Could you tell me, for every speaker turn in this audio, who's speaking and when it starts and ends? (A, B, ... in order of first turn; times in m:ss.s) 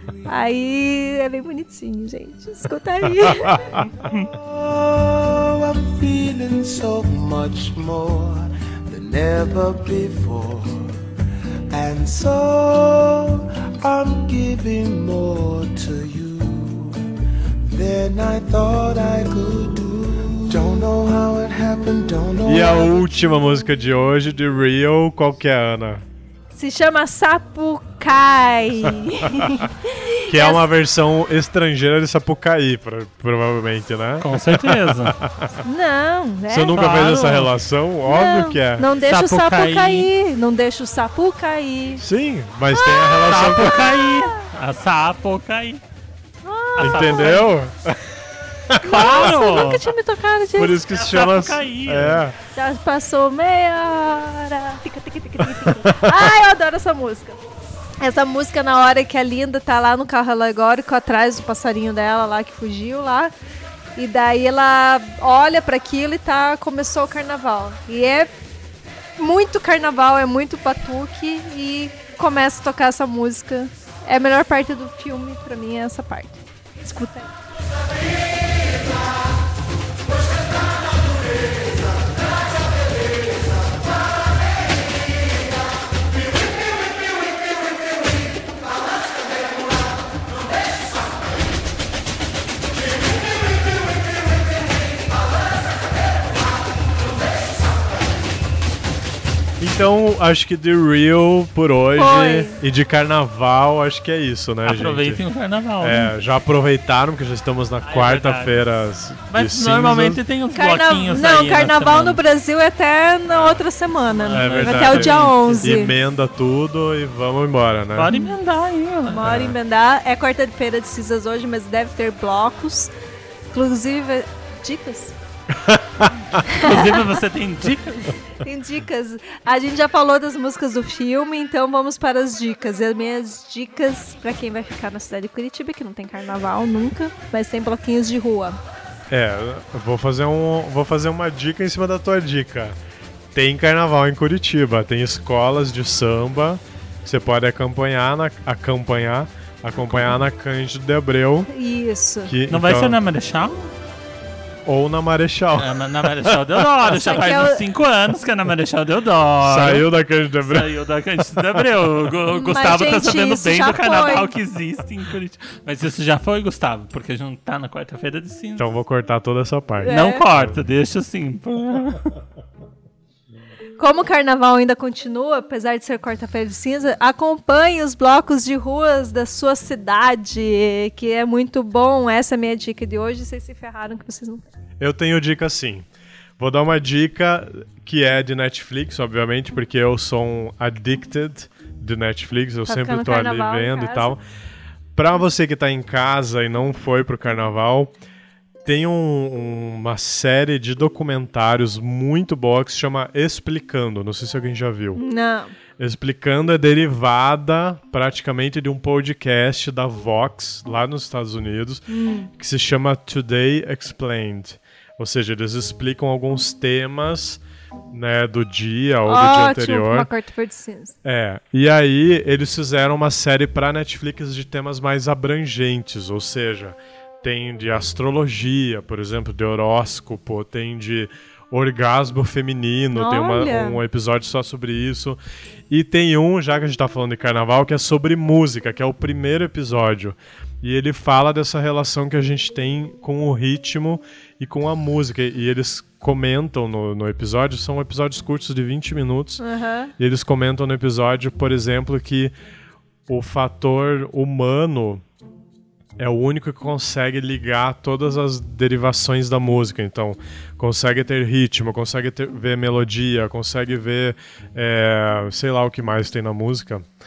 0:00.3-0:03.8 A
0:03.2-0:03.8 B
0:04.4-0:10.8 C
0:11.7-0:17.0 C
0:17.7-0:23.1 C
0:22.4-0:26.0 B
0:26.5-0:30.6 A
0:29.3-0:29.6 B
0:30.3-0:35.6 B
0:34.2-0:35.2 D
0:35.6-0:37.2 A
0:36.5-0:38.9 B
0:36.7-0:37.6 D
0:38.0-0:42.0 A
0:39.0-0:40.1 D
0:42.0-0:43.9 B
0:42.7-0:44.5 A
0:42.9-0:45.8 D
0:46.4-0:47.4 A
0:46.8-0:47.5 D
0:46.8-0:48.1 B
0:48.7-0:49.7 B
0:48.8-0:50.8 A
0:48.8-0:49.9 D
0:50.6-0:52.4 B
0:50.8-0:52.2 D
0:52.6-0:57.4 A
0:55.4-0:56.3 B
0:58.0-1:03.3 A
1:04.0-1:08.4 A
1:09.2-1:17.3 A
1:39.6-1:45.2 B
1:42.0-1:42.6 A
1:44.6-1:46.1 D
1:45.8-1:50.2 B
1:47.8-1:48.7 D
1:49.3-1:52.2 D
1:50.5-1:55.9 A
1:54.1-1:55.8 D
1:54.3-1:58.1 B
1:57.9-1:59.4 D
1:59.1-2:02.9 A
1:59.2-1:59.6 B
2:03.5-2:05.2 A
2:05.5-2:06.1 B
2:06.4-2:08.2 D
2:06.4-2:07.0 A
2:08.4-2:18.6 A
2:19.1-2:22.8 B
2:23.3-2:31.5 B
2:31.5-2:32.3 A
2:32.2-2:33.0 B
2:32.5-2:33.7 D
2:34.7-2:35.7 B
2:35.6-2:39.9 D
2:36.9-2:37.6 A
2:39.4-2:40.7 B
2:40.4-2:48.7 D
2:41.3-2:41.7 B
2:42.3-2:44.3 A
2:48.6-2:50.6 B
2:49.8-2:50.2 A
2:49.9-2:52.1 D
2:53.8-3:04.4 A
3:04.8-3:05.9 B
3:06.4-3:14.2 B
3:12.7-3:14.2 A
3:15.0-3:17.9 B
3:18.6-3:25.0 B
3:25.0-3:25.5 A
3:25.8-3:31.8 B
3:31.9-3:32.3 A
3:32.4-3:40.1 B
3:39.0-3:41.0 A
3:41.0-3:55.2 B
3:52.9-3:53.8 A
3:55.7-4:09.4 B
4:09.4-4:09.9 A
4:10.0-4:12.3 B
4:13.1-4:15.0 B
4:16.0-4:26.8 B